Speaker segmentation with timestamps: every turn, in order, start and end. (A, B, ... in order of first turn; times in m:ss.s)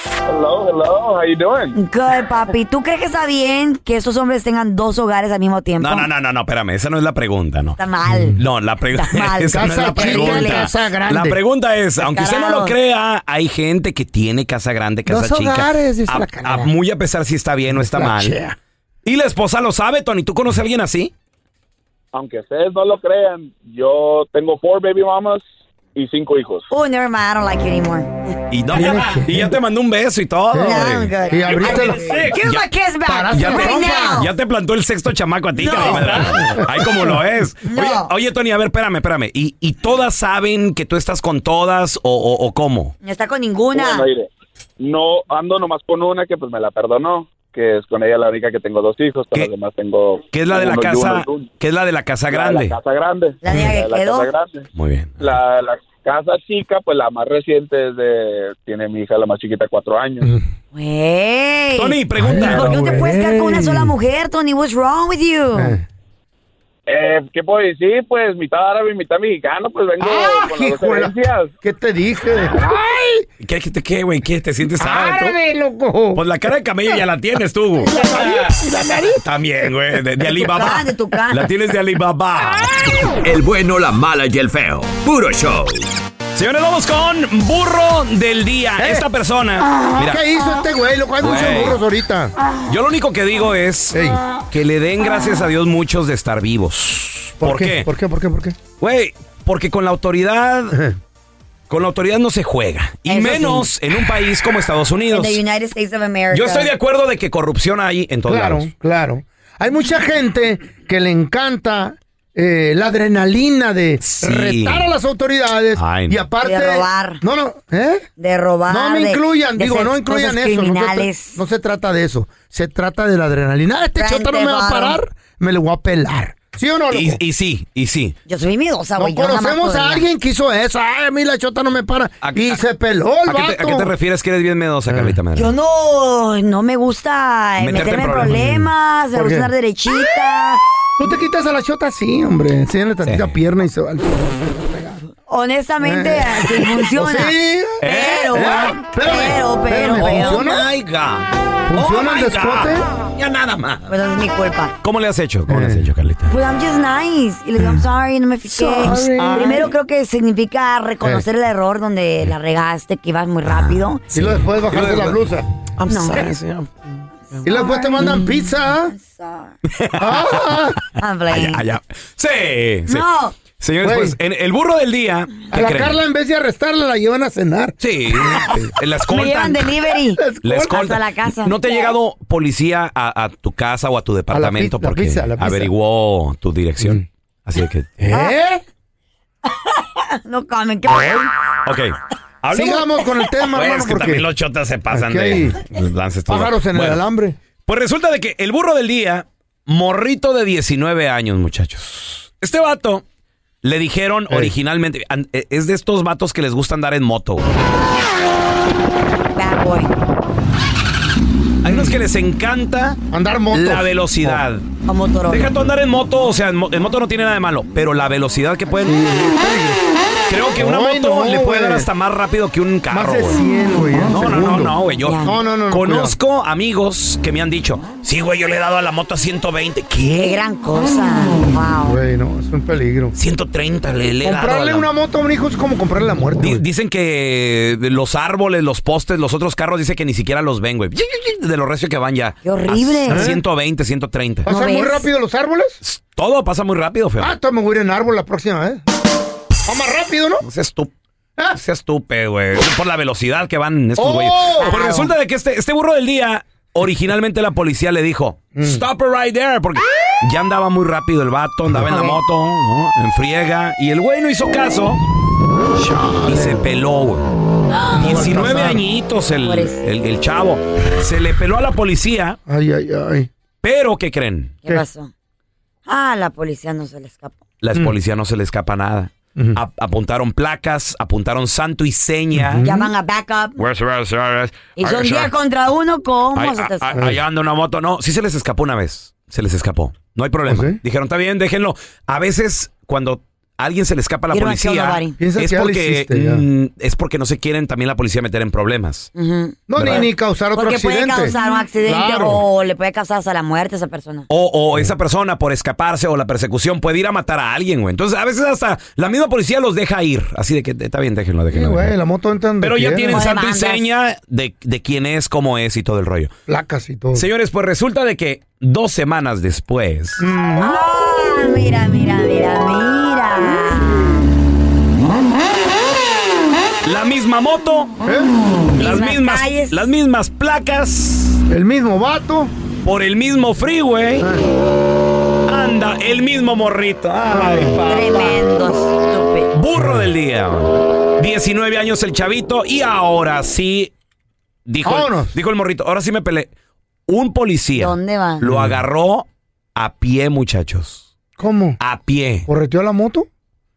0:00.3-0:01.7 A
0:01.8-0:06.1 B
0:05.8-0:07.8 C
0:07.8-0:10.7 B
0:08.1-0:08.4 D
0:08.4-0:18.4 C
0:09.5-0:11.4 D
0:12.0-0:12.8 B
0:15.1-0:16.7 D
0:17.7-0:18.6 D
0:19.0-0:21.1 C
0:22.1-0:26.7 A
0:26.7-0:28.4 B
0:28.5-0:32.7 C
0:28.7-0:29.5 D
0:30.5-0:34.3 B
0:31.3-0:32.3 D
0:33.1-0:34.3 D
0:33.3-0:43.0 C
0:35.6-0:36.4 B
0:35.8-0:37.2 D
0:37.7-0:38.1 B
0:43.0-0:44.1 B
0:43.7-0:51.5 A
0:50.3-0:52.8 C
0:52.3-0:54.7 A
0:53.4-0:54.3 B
0:54.7-0:55.2 C
0:55.2-1:00.3 A
1:00.7-1:05.8 B
1:01.8-1:03.0 C
1:02.2-1:03.9 D
1:05.6-1:05.8 D
1:06.9-1:11.5 A
1:10.0-1:13.3 D
1:13.4-1:15.4 C
1:14.8-1:16.2 D
1:16.1-1:18.4 C
1:17.8-1:20.6 D
1:19.2-1:23.0 C
1:20.4-1:21.5 B
1:23.2-1:25.8 E
1:26.3-1:30.2 C
1:28.8-1:29.1 D
1:30.0-1:32.3 D
1:31.2-1:31.8 C
1:32.7-1:34.0 C
1:33.9-1:34.2 D
1:34.5-1:37.9 C
1:37.4-1:38.6 D
1:38.8-1:40.8 C
1:41.7-1:45.4 C
1:43.1-1:43.7 B
1:45.1-1:46.7 B
1:46.3-1:48.7 C
1:48.3-1:58.1 D
1:54.0-1:54.9 C
1:55.8-1:56.2 C
1:56.4-1:57.2 B
1:58.2-2:01.4 B
1:58.7-2:07.2 D
2:04.0-2:05.0 B
2:06.9-2:08.2 C
2:08.3-2:10.1 B
2:09.0-2:13.9 D
2:12.2-2:12.6 C
2:13.3-2:15.5 C
2:14.9-2:15.2 D
2:15.4-2:20.6 B
2:17.6-2:18.4 C
2:18.2-2:19.5 D
2:21.0-2:25.0 D
2:23.0-2:23.4 C
2:25.3-2:30.6 B
2:25.8-2:30.7 D
2:27.8-2:28.6 C
2:29.9-2:33.9 C
2:31.7-2:32.9 D
2:33.9-2:34.7 B
2:34.8-2:36.3 C
2:35.5-2:35.9 D
2:36.3-2:44.1 B
2:38.6-2:39.7 D
2:38.7-2:39.4 C
2:43.5-2:45.3 C
2:44.1-2:45.5 D
2:45.8-2:46.7 C
2:45.9-2:46.3 B
2:47.4-2:48.3 B
2:47.4-2:49.0 D
2:48.9-2:49.5 B
2:49.7-2:50.8 C
2:50.0-2:50.8 D
2:51.0-2:51.7 B
2:51.3-2:56.0 C
2:52.9-2:53.4 B
2:53.8-2:54.2 D
2:55.5-2:58.5 D
2:57.8-2:59.6 C
2:58.2-2:58.5 B
2:59.1-3:01.9 B
3:00.2-3:00.7 D
3:00.4-3:08.0 C
3:04.3-3:05.7 D
3:08.0-3:08.6 D
3:09.5-3:11.3 B
3:10.9-3:11.3 D
3:11.6-3:12.9 C
3:12.5-3:14.3 D
3:13.5-3:17.0 C
3:14.9-3:15.7 D
3:16.3-3:17.4 D
3:17.6-3:23.0 C
3:23.6-3:27.4 C
3:29.4-3:29.9 B
3:31.6-3:33.0 C
3:31.7-3:32.0 D
3:33.1-3:34.4 D
3:33.5-3:34.7 C
3:34.9-3:35.6 B
3:35.3-3:39.1 C
3:38.8-3:39.8 D
3:40.3-3:43.4 C
3:40.6-3:41.9 D
3:42.9-3:46.2 D
3:44.1-3:50.4 C
3:45.0-3:45.3 B
3:50.1-3:52.0 B
3:51.8-3:53.1 D
3:53.1-3:54.9 C
3:54.2-3:56.6 D
3:56.4-4:04.5 C
4:02.4-4:03.4 B
4:03.1-4:03.4 D
4:04.5-4:05.1 B
4:04.5-4:05.8 D
4:05.8-4:07.4 C
4:07.2-4:08.8 D
4:09.7-4:10.5 D
4:10.4-4:10.9 C
4:11.6-4:25.0 C
4:14.0-4:15.0 D
4:14.6-4:15.1 B
4:18.6-4:18.8 D
4:21.7-4:22.2 D
4:25.8-4:26.7 D
4:25.9-4:27.3 C
4:27.9-4:28.8 D
4:28.0-4:32.4 C
4:29.4-4:29.9 B
4:32.5-4:33.3 D
4:33.6-4:34.6 C
4:34.6-4:35.1 B
4:35.9-4:37.4 B
4:37.6-4:42.7 C
4:42.4-4:42.9 D
4:42.6-4:43.6 B
4:43.6-4:45.3 C
4:44.8-4:47.0 B
4:46.4-4:59.1 C
4:50.5-4:50.8 D
4:54.3-4:55.2 B
4:55.2-4:56.4 D
4:59.2-5:04.3 B
4:59.7-5:02.4 D
4:59.8-5:00.1 C
5:04.3-5:11.9 C
5:11.5-5:13.2 D
5:12.6-5:16.3 C
5:13.1-5:13.9 B
5:16.5-5:17.3 D
5:17.1-5:20.3 C
5:20.2-5:20.8 D
5:20.6-5:24.3 B
5:26.8-5:28.0 C
5:28.0-5:28.4 D
5:28.7-5:29.8 B
5:28.7-5:31.4 C
5:31.5-5:32.5 D
5:32.8-5:34.3 C
5:34.2-5:34.4 D
5:35.5-5:38.0 C
5:37.3-5:38.4 D
5:37.8-5:39.5 B
5:39.5-5:43.9 C
5:39.8-5:40.1 D
5:44.7-5:46.5 C
5:44.8-5:45.4 D
5:47.1-5:51.0 C
5:47.8-5:48.4 B
5:48.5-5:48.8 D
5:51.4-5:51.8 D
5:51.8-5:52.5 C
5:52.5-5:53.3 D